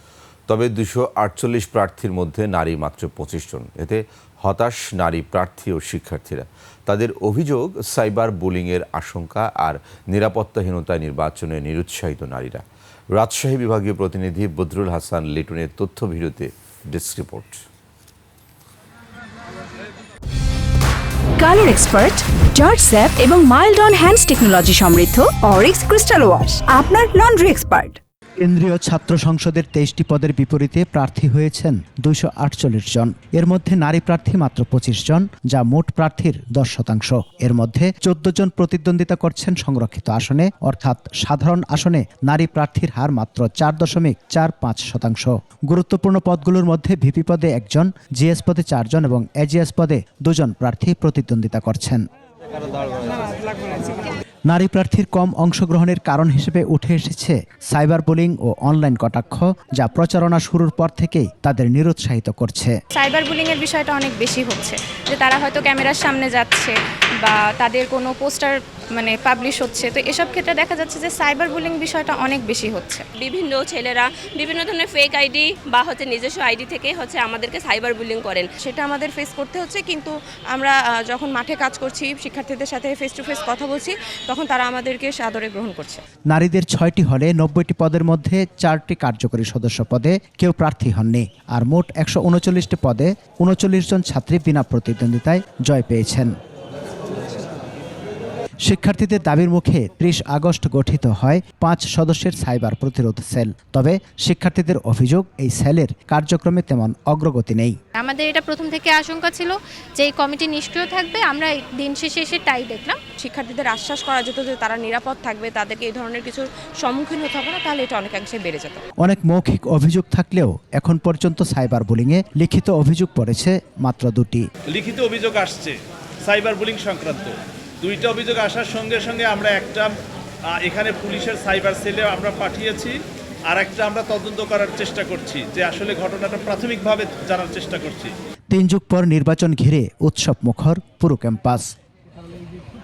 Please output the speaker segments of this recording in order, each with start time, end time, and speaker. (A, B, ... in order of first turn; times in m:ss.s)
0:00.5-0:17.6 A
0:21.4-0:28.0 B
0:28.4-0:52.0 C
0:54.5-1:02.8 C
1:02.9-1:13.0 D
1:13.2-1:18.5 E
1:18.6-1:26.0 F
1:26.3-1:36.3 C
1:38.6-1:47.8 C
1:48.0-1:53.0 G
1:53.2-1:58.8 F
1:59.0-2:04.4 C
2:04.8-2:05.7 H
2:06.3-2:07.3 H
2:07.8-2:09.9 H
2:10.6-2:12.9 H
2:13.5-2:18.1 H
2:18.5-2:21.7 C